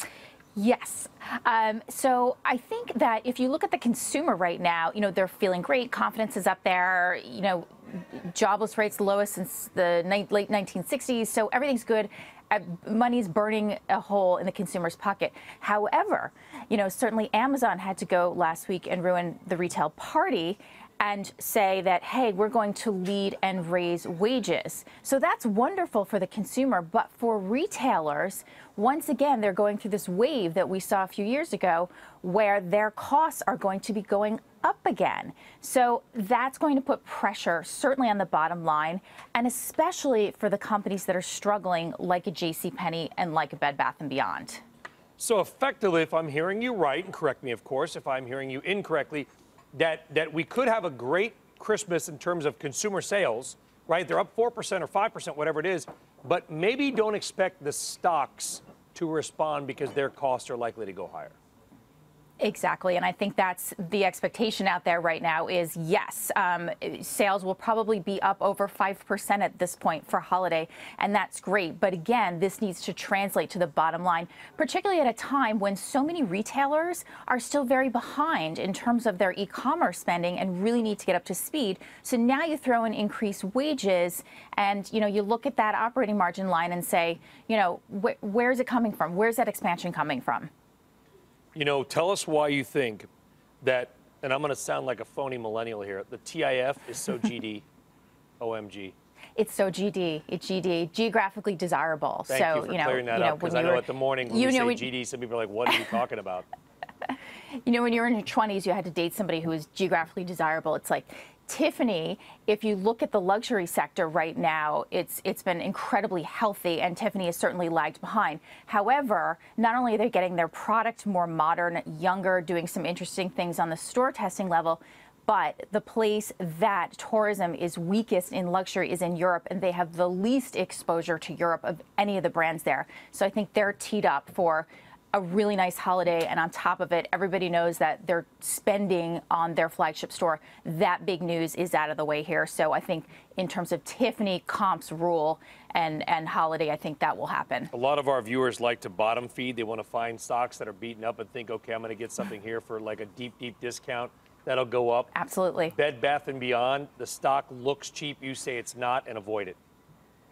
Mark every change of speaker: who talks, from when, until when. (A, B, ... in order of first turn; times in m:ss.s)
0:00.6-0:44.6 A
0:45.2-1:01.4 B
1:02.4-1:30.5 A
1:31.6-1:33.1 B
1:33.6-1:37.6 B
1:38.4-1:39.0 B
1:39.4-1:44.9 A
1:42.3-1:46.5 B
1:47.1-2:27.7 A
2:27.7-2:35.1 B
2:35.1-2:35.8 A
2:35.7-2:39.6 B